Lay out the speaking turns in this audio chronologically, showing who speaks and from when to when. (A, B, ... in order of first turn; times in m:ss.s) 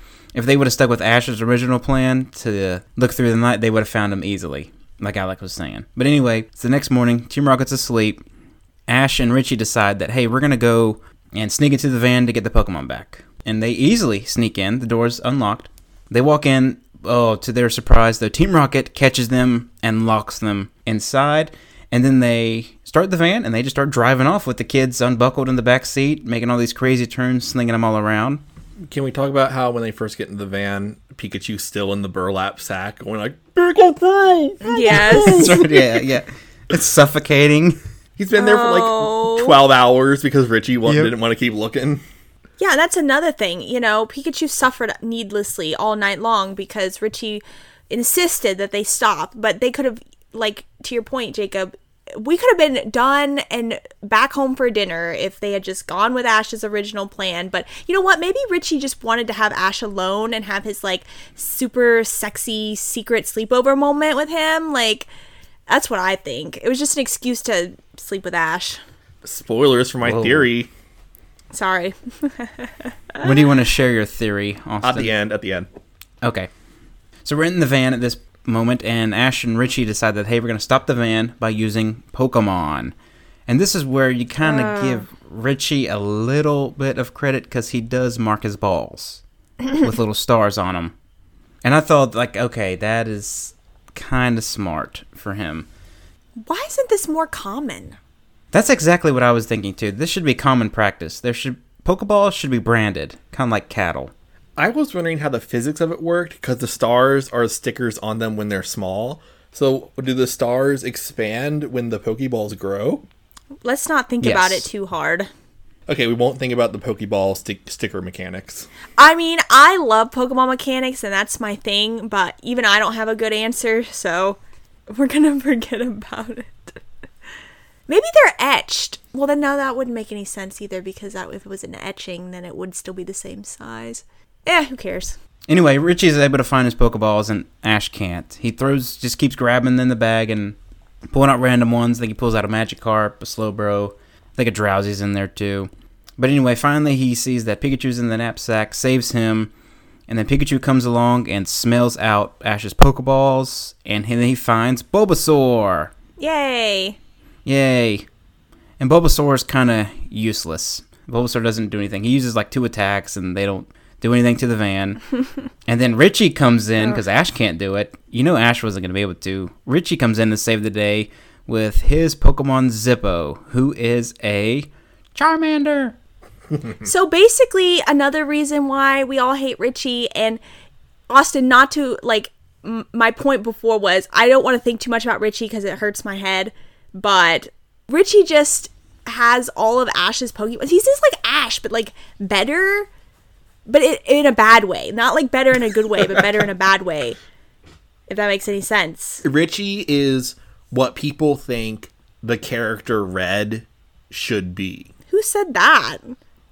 0:00.4-0:08.2 A
0:08.9-0:28.4 A
0:28.9-0:35.9 B
0:34.6-0:35.5 C
0:35.0-0:37.8 A
0:38.2-0:42.0 B
0:38.4-0:39.6 C
0:40.9-0:41.1 A
0:42.6-1:05.1 C
1:05.7-1:08.8 C
1:09.2-1:10.7 B
1:10.0-1:10.5 A
1:11.5-1:13.3 C
1:13.2-1:15.1 A
1:14.8-1:15.7 B
1:16.2-1:16.5 A
1:17.2-1:22.9 A
1:23.5-1:29.2 A
1:24.4-1:25.1 C
1:29.8-1:30.9 A
1:31.6-1:35.7 A
1:36.4-1:38.0 C
1:38.5-1:44.1 A
1:44.6-1:53.0 B
1:53.6-1:55.3 C
1:54.2-1:54.7 A
1:55.9-1:58.7 B
1:59.0-2:06.8 C
2:07.9-2:15.2 C
2:15.5-2:20.6 A
2:21.1-2:29.5 A
2:30.1-2:35.9 A
2:36.2-2:37.0 C
2:37.4-2:38.1 A
2:38.8-2:45.1 A
2:45.6-2:56.0 A
2:56.8-3:00.4 C
3:01.1-3:12.9 C
3:13.7-3:17.2 C
3:18.1-3:19.2 C
3:19.2-3:24.9 B
3:25.1-3:26.2 C